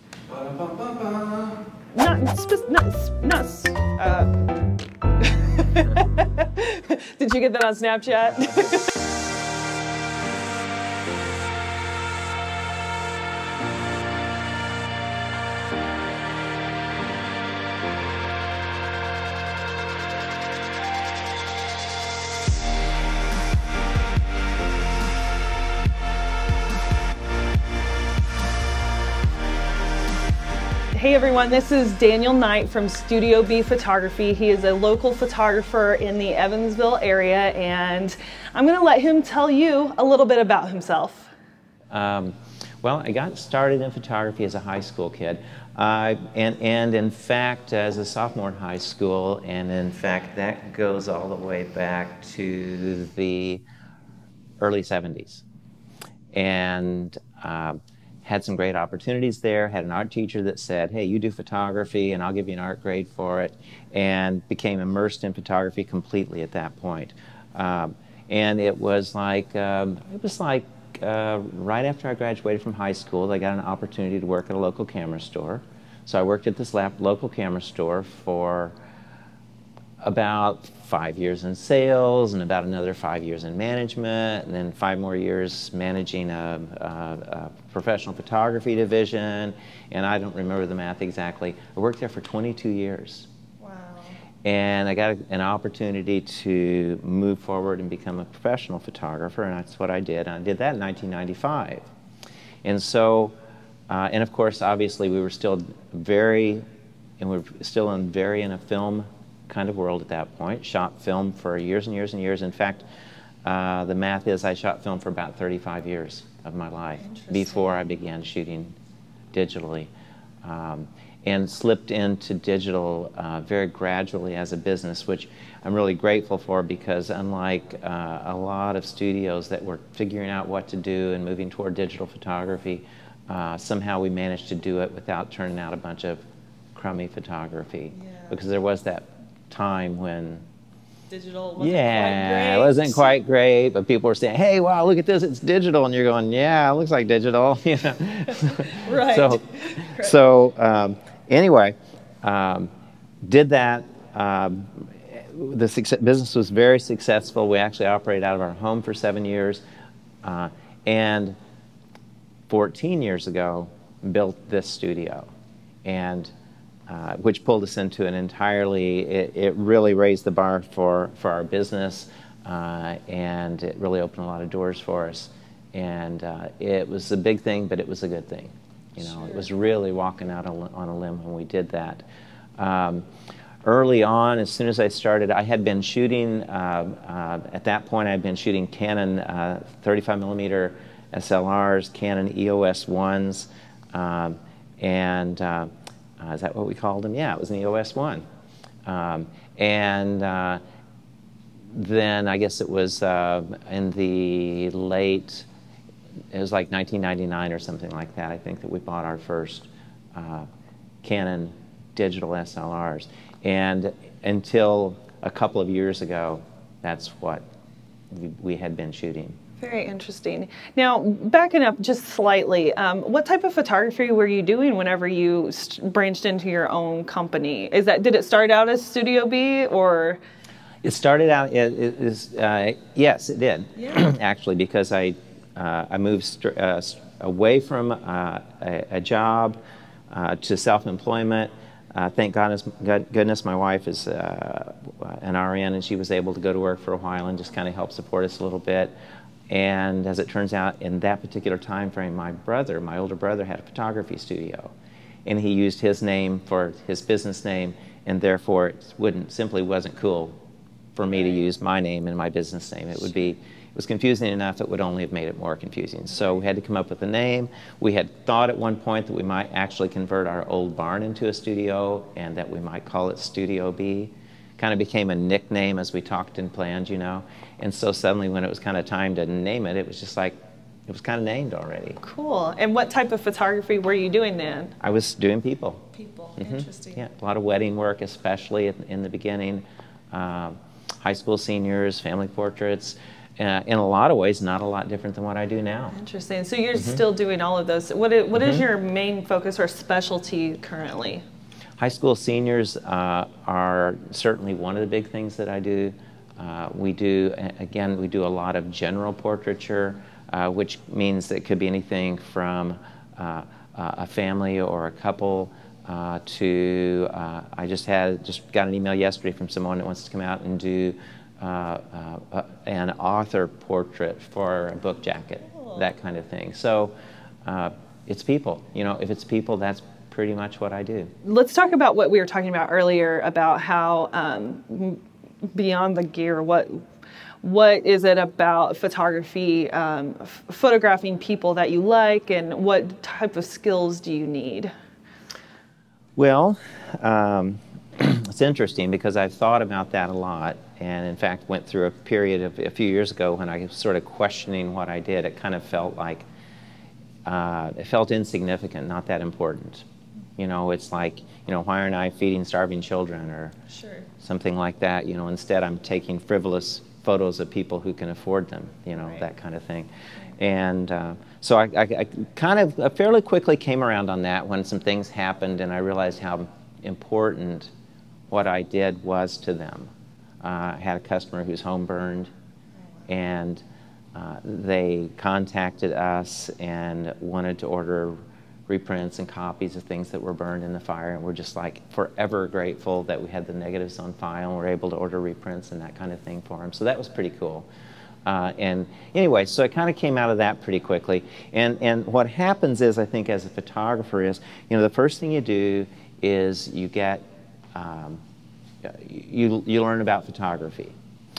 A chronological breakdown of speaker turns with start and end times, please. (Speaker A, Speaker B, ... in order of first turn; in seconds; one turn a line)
Speaker A: 1.9-4.3
Speaker A: 5.2-8.9
Speaker A: 30.9-41.3
Speaker B: 41.9-53.6
Speaker B: 54.6-55.4
Speaker B: 56.3-78.7
Speaker B: 80.0-93.3
Speaker A: 93.6-94.2
Speaker B: 94.4-101.9
Speaker B: 102.6-103.3
Speaker B: 103.9-106.6
Speaker B: 107.2-112.8
Speaker B: 113.4-118.7
Speaker A: 117.0-117.7
Speaker B: 119.3-119.9
Speaker B: 120.4-140.4
Speaker A: 137.9-138.4
Speaker A: 141.1-143.2
Speaker B: 141.6-152.7
Speaker A: 148.6-150.2
Speaker B: 153.2-159.6
Speaker B: 160.2-161.4
Speaker B: 162.5-165.3
Speaker B: 165.8-166.3
Speaker B: 166.9-182.0
Speaker A: 179.0-179.4
Speaker B: 182.6-183.0
Speaker B: 183.6-198.2
Speaker B: 198.8-200.6
Speaker B: 201.7-205.5
Speaker B: 206.3-210.5
Speaker B: 211.0-217.4
Speaker B: 218.1-219.4
Speaker A: 219.6-230.2
Speaker B: 230.8-239.6
Speaker A: 233.8-234.1
Speaker B: 240.1-248.9
Speaker B: 249.5-254.7
Speaker B: 255.2-260.4
Speaker B: 260.9-282.0
Speaker A: 261.2-261.4
Speaker A: 282.0-284.7
Speaker B: 284.8-285.8
Speaker A: 285.9-287.0
Speaker B: 286.4-295.9
Speaker A: 295.9-301.2
Speaker B: 296.7-297.0
Speaker B: 298.4-298.6
Speaker B: 301.8-326.9
Speaker A: 325.5-325.8
Speaker B: 327.4-331.1
Speaker A: 331.2-335.0
Speaker A: 335.5-336.9
Speaker A: 337.4-344.7
Speaker B: 346.2-356.2
Speaker B: 357.2-359.9
Speaker B: 360.4-363.6
Speaker A: 363.7-364.1
Speaker B: 364.2-377.7
Speaker B: 378.3-382.3
Speaker B: 383.1-383.6
Speaker B: 384.1-397.7
Speaker B: 398.2-408.2
Speaker B: 408.8-410.9